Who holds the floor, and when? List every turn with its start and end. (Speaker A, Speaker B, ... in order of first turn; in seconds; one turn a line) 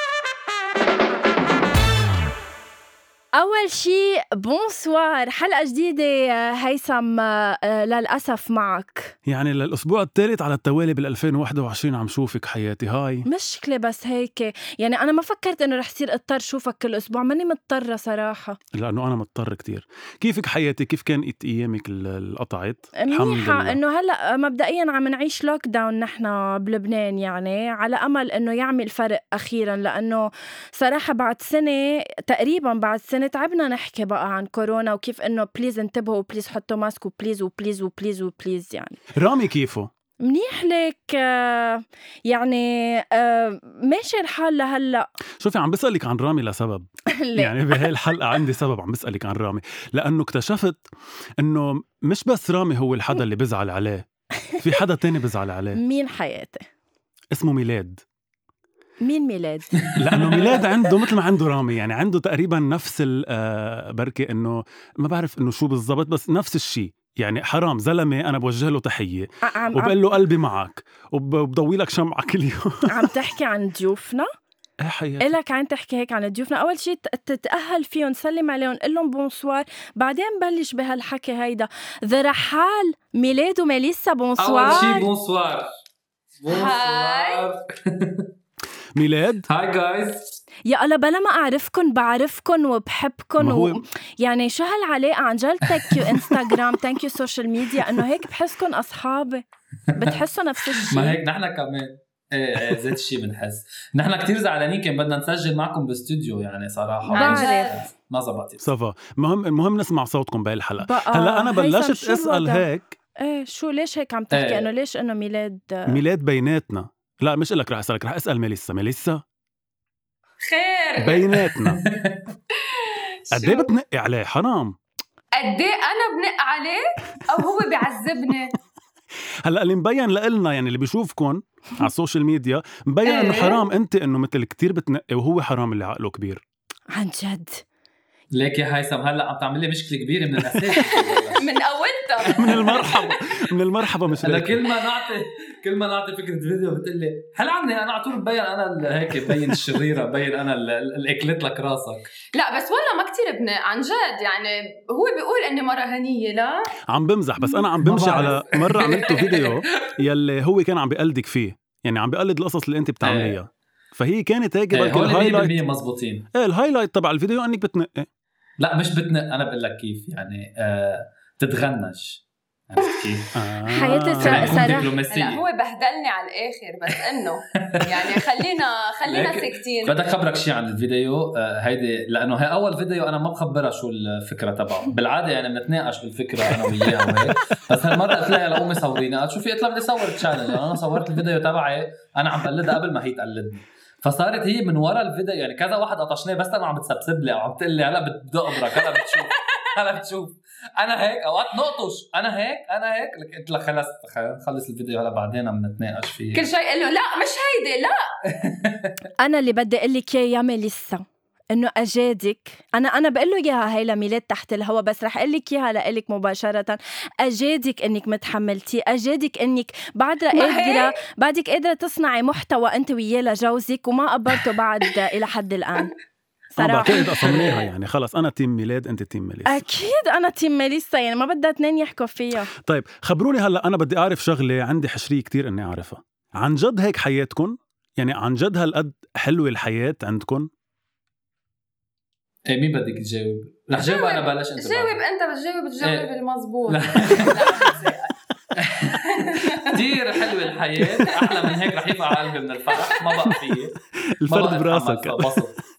Speaker A: 3.4-9.1
Speaker B: 9.3-13.2
Speaker A: 13.2-18.6
Speaker B: 18.7-23.8
Speaker A: 23.0-39.0
Speaker B: 39.1-39.9
Speaker A: 40.2-45.1
Speaker B: 45.4-50.8
Speaker A: 47.1-47.8
Speaker B: 51.4-54.0
Speaker B: 54.6-55.8
Speaker A: 55.8-56.6
Speaker B: 57.3-58.0
Speaker A: 59.0-59.8
Speaker C: 59.8-61.0
Speaker B: 60.0-73.1
Speaker A: 69.4-70.0
Speaker A: 72.9-74.3
Speaker B: 74.8-75.3
Speaker A: 75.2-85.0
Speaker C: 84.4-85.7
Speaker D: 84.7-85.0
Speaker C: 86.4-88.3
Speaker D: 86.5-87.5
Speaker B: 88.9-89.5
Speaker C: 89.5-90.3
Speaker A: 90.7-99.4
Speaker B: 93.4-93.8
Speaker C: 95.9-96.5
Speaker A: 100.0-101.2
Speaker C: 100.9-108.7
Speaker D: 107.0-107.8
Speaker A: 107.1-107.8
Speaker B: 108.6-113.0
Speaker A: 110.8-112.6
Speaker A: 113.2-116.0
Speaker C: 114.3-114.7
Speaker B: 115.9-119.2
Speaker D: 120.4-121.4
Speaker B: 121.0-121.8
Speaker C: 121.6-122.3
Speaker D: 122.5-123.7
Speaker B: 123.3-124.8
Speaker D: 125.3-128.5
Speaker B: 129.4-136.4
Speaker D: 133.0-133.6
Speaker A: 136.9-137.6
Speaker C: 138.3-141.4
Speaker D: 140.7-143.2
Speaker C: 142.2-142.8
Speaker B: 142.3-144.6
Speaker C: 144.2-152.1
Speaker D: 144.6-145.2
Speaker B: 149.3-149.5
Speaker D: 152.3-156.7
Speaker B: 156.9-165.6
Speaker C: 157.8-159.6
Speaker D: 158.7-159.3
Speaker C: 163.0-163.4
Speaker C: 164.7-166.3
Speaker B: 166.3-168.1
Speaker C: 168.6-173.3
Speaker B: 173.3-174.8
Speaker A: 173.7-174.9
Speaker C: 173.9-175.4
Speaker D: 175.1-179.9
Speaker C: 177.7-178.2
Speaker C: 179.0-206.5
Speaker D: 198.7-199.6
Speaker D: 206.3-208.0
Speaker C: 208.3-209.1
Speaker A: 209.2-225.9
Speaker D: 220.3-221.0
Speaker A: 226.5-227.2
Speaker B: 226.6-229.7
Speaker D: 227.2-227.6
Speaker C: 227.3-227.5
Speaker A: 229.4-232.5
Speaker B: 232.6-240.5
Speaker C: 242.5-245.0
Speaker D: 243.8-248.1
Speaker C: 245.8-246.1
Speaker C: 246.7-247.8
Speaker C: 248.6-253.8
Speaker D: 249.1-249.8
Speaker D: 252.7-253.3
Speaker B: 254.2-255.4
Speaker C: 254.3-255.6